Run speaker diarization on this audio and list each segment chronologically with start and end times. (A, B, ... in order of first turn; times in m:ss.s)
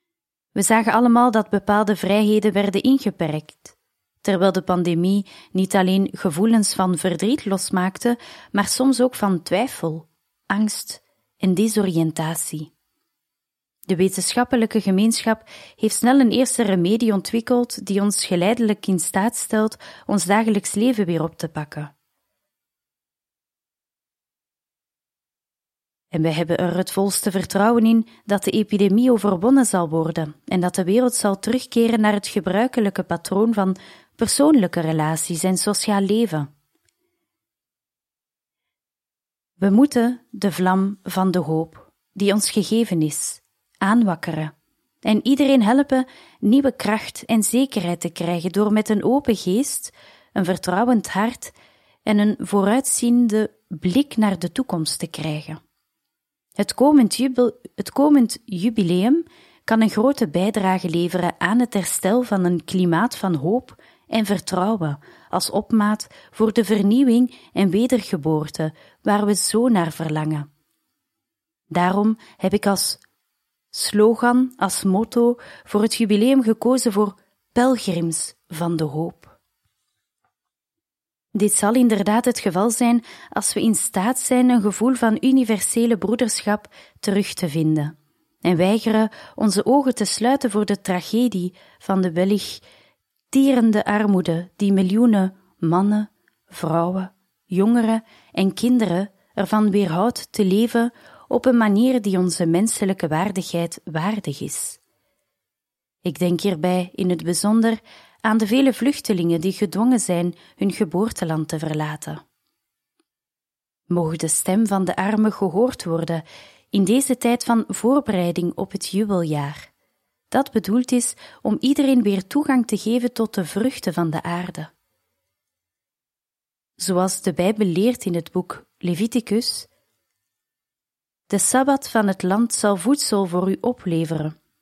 0:00.6-0:12.7 A
0:13.9-0:21.9 A
0:26.1-0:36.5 A
0:39.6-0:44.5 A
0:45.0-0:51.5 A
0:52.1-0:55.6 A
0:56.6-1:10.5 A
1:11.7-1:13.0 A
1:13.7-1:19.4 A
1:21.4-1:32.6 A
1:33.3-1:44.8 A
1:46.0-1:52.2 A
1:53.9-1:59.7 A
2:00.3-2:04.7 A
2:06.8-2:09.7 A
2:11.3-2:14.4 A